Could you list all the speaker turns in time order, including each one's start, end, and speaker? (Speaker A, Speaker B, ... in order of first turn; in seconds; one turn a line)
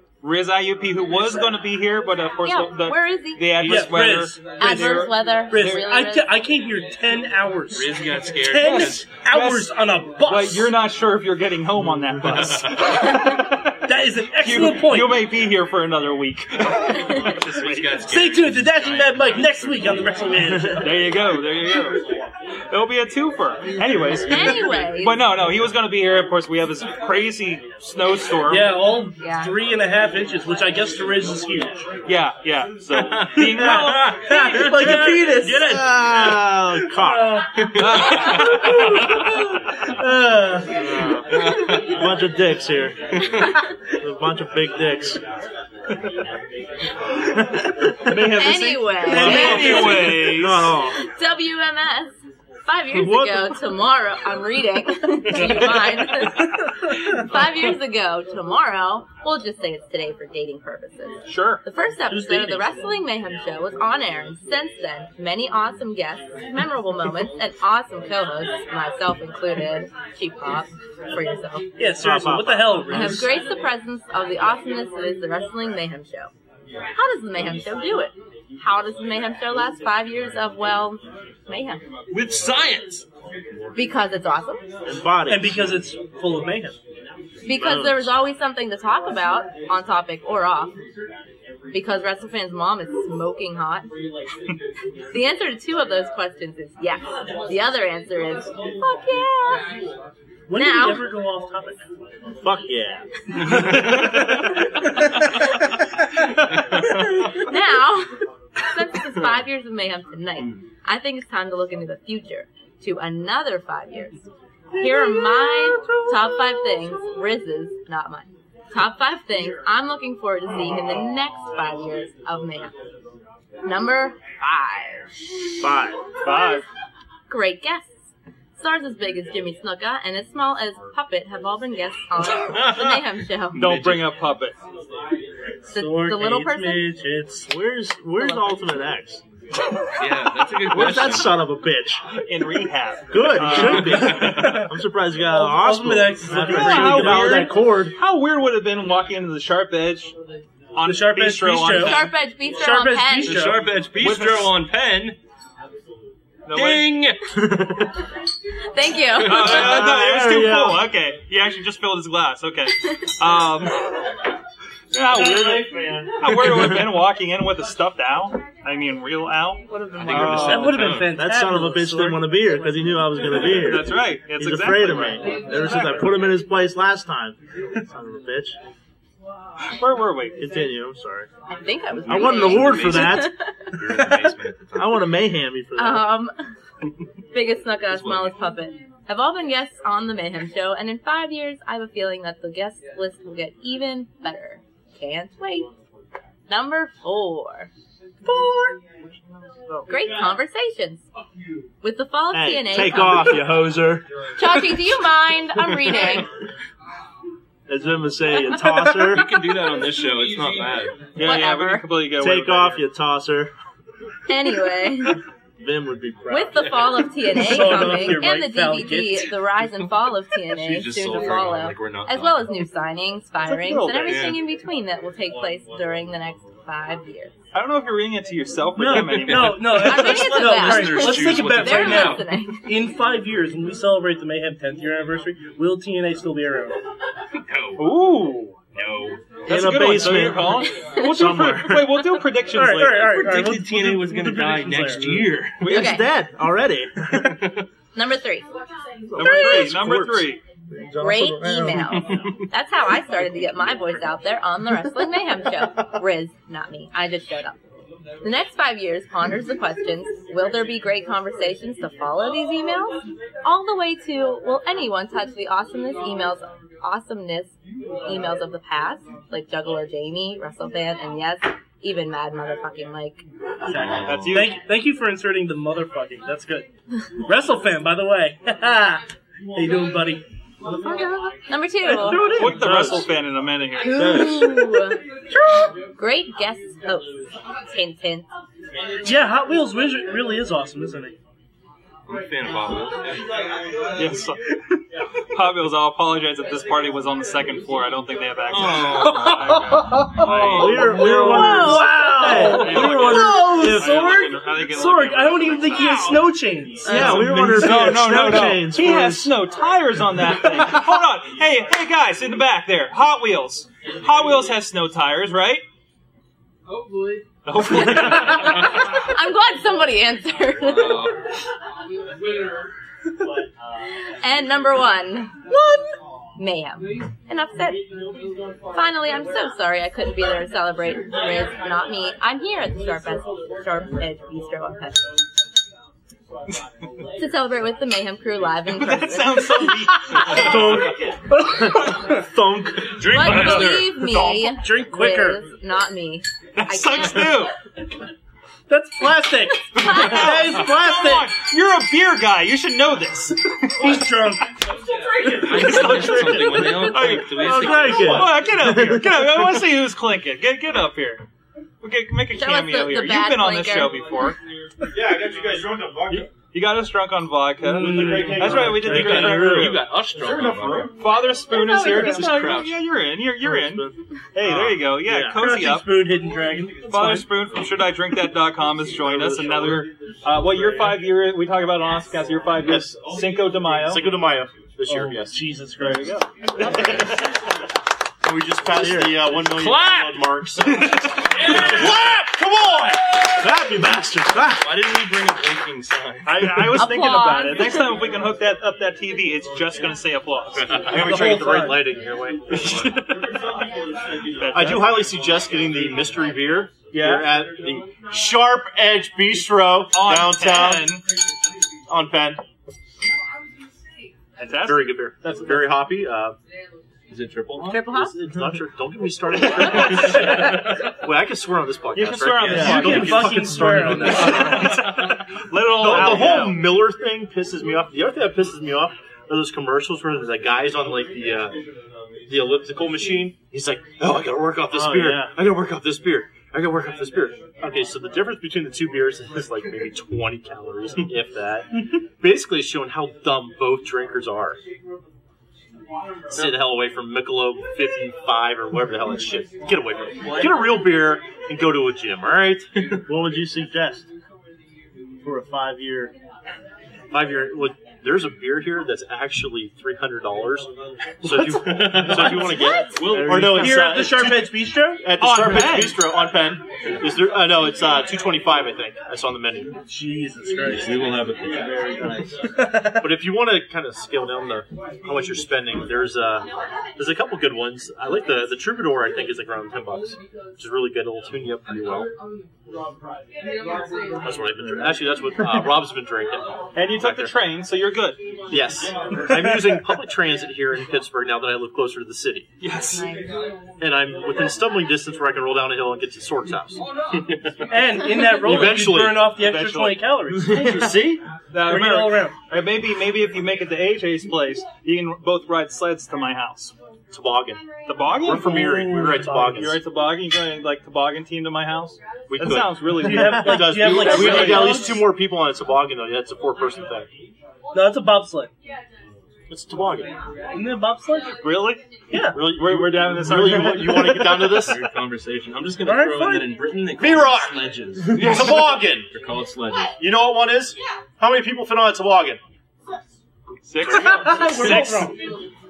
Speaker A: 0.2-5.1
Speaker B: 2.4-3.5
Speaker C: 3.6-10.7
Speaker B: 4.6-6.3
Speaker D: 7.7-9.1
Speaker A: 8.6-13.4
Speaker C: 13.8-15.2
Speaker A: 14.4-18.0
Speaker D: 17.2-20.2
Speaker C: 18.0-21.0
Speaker A: 20.8-22.0
Speaker A: 22.7-28.7
Speaker B: 24.2-25.2
Speaker C: 28.4-31.8
Speaker B: 29.2-29.5
Speaker A: 32.0-34.8
Speaker D: 32.9-33.4
Speaker C: 33.4-36.2
Speaker E: 34.3-37.5
Speaker C: 37.0-37.6
Speaker A: 37.8-38.8
Speaker D: 37.9-38.4
Speaker C: 38.2-38.9
Speaker C: 39.9-40.8
Speaker E: 40.7-43.2
Speaker D: 41.3-41.9
Speaker D: 43.1-43.5
Speaker E: 44.0-45.2
Speaker A: 48.1-50.7
Speaker B: 48.4-50.2
Speaker C: 49.0-50.3
Speaker E: 49.1-51.0
Speaker B: 51.0-52.1
Speaker B: 52.6-56.5
Speaker E: 52.9-53.6
Speaker B: 57.1-71.7
Speaker A: 61.2-61.6
Speaker C: 62.1-62.8
Speaker C: 71.8-73.3
Speaker E: 72.0-73.2
Speaker B: 72.9-76.3
Speaker B: 76.9-81.8
Speaker D: 82.1-83.0
Speaker B: 83.7-84.6
Speaker E: 84.8-85.8
Speaker C: 85.3-86.8
Speaker B: 87.4-90.7
Speaker E: 87.6-88.1
Speaker B: 91.7-93.9
Speaker B: 95.1-99.7
Speaker C: 100.5-101.8
Speaker B: 100.5-101.0
Speaker E: 102.4-103.0
Speaker B: 107.3-108.1
Speaker B: 108.7-114.2
Speaker E: 114.8-116.6
Speaker B: 114.8-122.7
Speaker B: 123.6-125.1
Speaker E: 125.6-126.0
Speaker A: 126.2-126.6
Speaker B: 127.3-127.9
Speaker B: 128.6-133.6
Speaker A: 133.5-134.5
Speaker D: 133.6-134.0
Speaker B: 135.7-136.9
Speaker C: 135.7-137.5
Speaker E: 137.4-139.2
Speaker D: 140.0-141.4
Speaker E: 140.7-142.0
Speaker A: 142.2-144.7
Speaker E: 143.1-147.9
Speaker D: 143.6-144.2
Speaker C: 144.2-144.7
Speaker C: 145.2-147.4
Speaker A: 146.3-150.1
Speaker A: 150.7-152.0
Speaker C: 150.8-153.8
Speaker B: 151.6-153.5
Speaker D: 153.2-155.2
Speaker A: 153.9-154.5
Speaker A: 156.5-156.9
Speaker D: 156.5-157.2
Speaker E: 157.4-157.9
Speaker B: 158.7-159.5
Speaker A: 159.2-163.8
Speaker E: 159.3-160.8
Speaker D: 159.3-159.9
Speaker A: 164.9-170.9
Speaker E: 165.1-166.8
Speaker B: 169.8-170.3
Speaker D: 170.0-171.2
Speaker C: 170.1-172.3
Speaker E: 171.1-178.6
Speaker A: 173.4-175.3
Speaker A: 179.8-180.4
Speaker E: 180.4-181.3
Speaker B: 181.5-183.5
Speaker E: 182.0-183.3
Speaker D: 182.1-185.1
Speaker E: 184.7-186.1
Speaker B: 185.8-186.3
Speaker B: 187.3-195.7
Speaker D: 187.9-188.3
Speaker B: 196.5-197.7
Speaker E: 198.3-198.7
Speaker A: 199.7-199.9
Speaker B: 199.9-201.0
Speaker B: 201.8-203.4
Speaker E: 202.3-204.0
Speaker B: 204.4-206.3
Speaker E: 207.7-209.2
Speaker D: 208.9-211.0
Speaker A: 211.2-212.8
Speaker B: 211.2-211.8
Speaker E: 212.2-213.5
Speaker B: 214.3-215.2
Speaker E: 215.6-216.6
Speaker B: 216.3-227.3
Speaker C: 217.3-219.3
Speaker D: 220.6-222.5
Speaker A: 223.4-224.4
Speaker D: 224.0-224.4
Speaker A: 227.5-229.9
Speaker C: 228.8-236.8
Speaker D: 228.9-232.2
Speaker B: 229.7-232.6
Speaker D: 237.3-237.9
Speaker A: 237.8-238.6
Speaker D: 238.7-239.2
Speaker E: 239.5-241.9
Speaker A: 239.5-243.3
Speaker B: 240.6-241.4
Speaker C: 242.5-245.4
Speaker D: 243.1-245.6
Speaker A: 245.6-246.0
Speaker E: 245.6-247.4
Speaker B: 245.7-246.1
Speaker B: 247.9-248.4
Speaker E: 249.1-252.0
Speaker A: 249.2-250.4
Speaker B: 249.2-249.7
Speaker B: 251.0-257.6
Speaker D: 251.9-252.3
Speaker B: 258.2-267.5
Speaker B: 268.1-273.2
Speaker C: 273.6-276.7
Speaker A: 274.0-274.6
Speaker C: 277.2-279.0
Speaker C: 279.5-280.2
Speaker B: 280.7-282.3
Speaker C: 281.9-283.0
Speaker A: 282.1-284.4
Speaker E: 282.4-282.9
Speaker B: 283.8-285.0
Speaker E: 283.9-284.5
Speaker B: 285.9-287.1
Speaker B: 287.7-288.2
Speaker C: 289.0-291.1
Speaker D: 292.1-293.2
Speaker A: 294.0-294.4
Speaker A: 295.3-306.3
Speaker D: 298.5-301.0
Speaker C: 299.0-308.1
Speaker E: 300.2-304.1
Speaker B: 301.2-301.8
Speaker A: 306.8-315.6
Speaker E: 306.9-309.4
Speaker A: 317.4-318.8
Speaker B: 317.7-321.1
Speaker B: 324.2-325.4
Speaker B: 326.4-327.8
Speaker B: 328.7-335.0
Speaker B: 337.2-339.7
Speaker A: 338.7-340.7
Speaker E: 340.2-343.3
Speaker B: 343.1-347.4
Speaker A: 343.1-343.9
Speaker D: 343.2-343.5
Speaker C: 343.3-345.4
Speaker A: 346.6-347.5
Speaker C: 348.7-351.3
Speaker A: 349.7-354.0
Speaker E: 350.5-351.1
Speaker C: 353.8-354.4
Speaker A: 355.3-361.2
Speaker E: 355.4-359.6
Speaker D: 355.4-358.2
Speaker F: 357.8-358.3
Speaker A: 361.8-364.4
Speaker B: 362.3-364.0
Speaker F: 364.9-366.3
Speaker A: 366.1-376.0
Speaker C: 367.7-368.9
Speaker F: 367.8-369.5
Speaker E: 368.4-369.8
Speaker D: 368.7-370.9
Speaker F: 370.2-370.9
Speaker D: 371.8-372.8
Speaker E: 373.4-375.4
Speaker C: 375.3-377.3
Speaker A: 376.9-384.0
Speaker E: 379.0-379.8
Speaker F: 382.6-383.0
Speaker F: 383.7-385.4
Speaker C: 384.9-386.2
Speaker A: 385.8-387.3
Speaker F: 386.6-387.1
Speaker F: 388.2-392.9
Speaker E: 388.7-389.3
Speaker D: 389.4-390.2
Speaker D: 391.3-392.9
Speaker A: 391.5-391.8
Speaker E: 393.4-394.7
Speaker D: 394.6-396.7
Speaker A: 396.2-400.8
Speaker B: 396.7-398.0
Speaker D: 400.6-400.9
Speaker F: 400.8-402.9
Speaker C: 401.0-401.8
Speaker A: 404.4-405.0
Speaker F: 404.5-411.0
Speaker A: 406.9-407.3
Speaker A: 409.9-411.0
Speaker F: 411.9-412.4
Speaker F: 414.4-416.4
Speaker A: 414.4-414.9
Speaker D: 417.1-417.8
Speaker B: 417.6-418.1
Speaker F: 417.8-424.9
Speaker A: 421.9-426.7
Speaker E: 422.5-422.8
Speaker C: 422.6-424.8
Speaker F: 425.7-431.6
Speaker F: 432.3-444.6
Speaker E: 434.7-435.4
Speaker F: 446.3-452.7
Speaker D: 450.2-450.6
Speaker E: 453.1-454.1
Speaker E: 455.2-456.1
Speaker F: 457.1-460.7
Speaker F: 461.2-469.8
Speaker D: 461.7-462.3
Speaker E: 461.9-463.7
Speaker D: 462.9-463.5
Speaker C: 463.4-465.0
Speaker A: 465.1-466.0
Speaker C: 469.9-471.1
Speaker D: 470.7-472.3
Speaker C: 472.6-473.0
Speaker F: 473.0-482.1
Speaker F: 484.2-487.3
Speaker A: 486.7-488.2
Speaker F: 488.5-492.5
Speaker A: 492.6-493.1
Speaker B: 492.9-493.2
Speaker F: 493.8-496.8
Speaker C: 497.7-500.6
Speaker F: 498.2-499.3
Speaker A: 499.3-500.1
Speaker E: 500.4-501.2
Speaker F: 500.6-501.2
Speaker A: 501.5-506.7
Speaker C: 501.6-502.3
Speaker F: 507.1-509.8
Speaker A: 507.9-508.6
Speaker C: 508.4-509.6
Speaker A: 509.4-514.7
Speaker F: 512.3-517.1
Speaker C: 513.0-515.1
Speaker C: 517.7-518.5
Speaker F: 519.5-520.1
Speaker C: 520.5-521.4
Speaker A: 521.4-521.8
Speaker C: 522.1-522.4
Speaker F: 522.3-524.8
Speaker A: 522.4-524.5
Speaker D: 524.4-529.9
Speaker C: 525.8-526.5
Speaker F: 527.0-529.1
Speaker F: 530.0-532.4
Speaker A: 533.6-535.1
Speaker C: 533.9-535.2